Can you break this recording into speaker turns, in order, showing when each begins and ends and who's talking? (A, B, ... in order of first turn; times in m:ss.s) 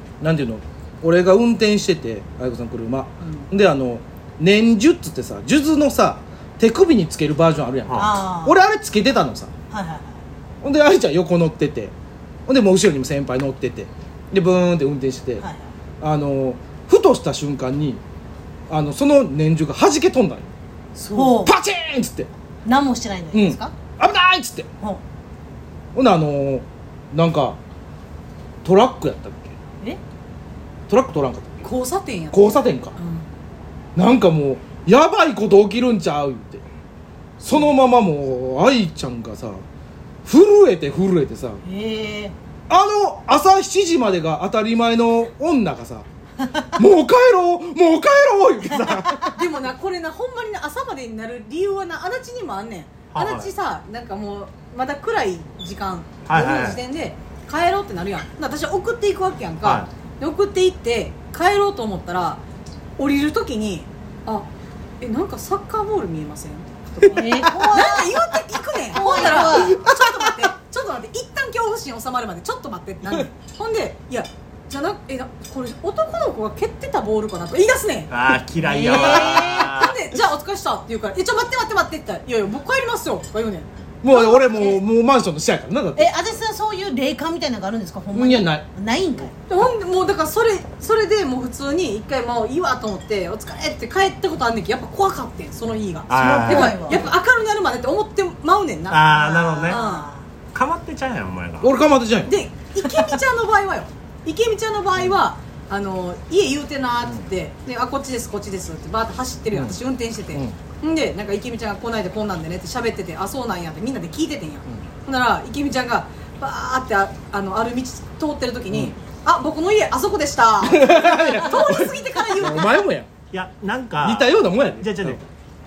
0:00.2-0:09.5 A
0:03.2-0:03.5 B
0:07.9-0:08.1 C
0:07.9-0:08.6 D
0:09.7-0:10.2 D
0:10.6-0:11.9 A
0:12.5-0:15.4 A
0:15.4-0:15.7 D
0:16.0-0:18.0 A
0:18.7-0:20.5 A
0:20.9-0:21.5 B
0:21.1-0:21.5 D
0:21.4-0:22.3 A
0:22.6-0:23.7 D
0:23.3-0:24.7 A
0:25.9-0:27.6 A
0:28.6-0:29.5 A
0:30.9-0:31.6 A
0:31.6-0:33.3 B
0:32.3-0:32.9 A
0:34.0-0:36.6 A
0:37.4-0:39.6 A
0:40.2-0:41.6 A
0:41.6-0:42.3 D
0:42.7-0:46.0 A
0:46.6-0:49.3 A
0:48.9-0:49.2 D
0:49.3-1:02.4 B
0:53.1-0:53.5 C
0:56.2-0:56.8 C
0:59.6-0:59.9 C
1:03.0-1:04.5 B
1:05.0-1:18.2 B
1:07.0-1:07.7 A
1:07.2-1:08.1 D
1:08.9-1:09.8 D
1:09.0-1:10.0 A
1:18.1-1:20.0 C
1:18.6-1:19.7 D
1:18.8-1:23.7 B
1:24.0-1:26.1 A
1:24.1-1:24.8 D
1:25.9-1:29.4 D
1:28.1-1:28.6 A
1:29.5-1:40.1 B
1:36.1-1:36.8 C
1:36.1-1:37.1 D
1:38.9-1:39.8 C
1:39.1-1:40.3 D
1:40.5-1:41.7 C
1:41.6-1:42.3 A
1:42.2-2:02.8 B
1:42.8-1:43.2 D
1:49.5-1:49.8 A
2:00.6-2:03.1 A
2:03.3-2:05.2 C
2:04.0-2:05.2 A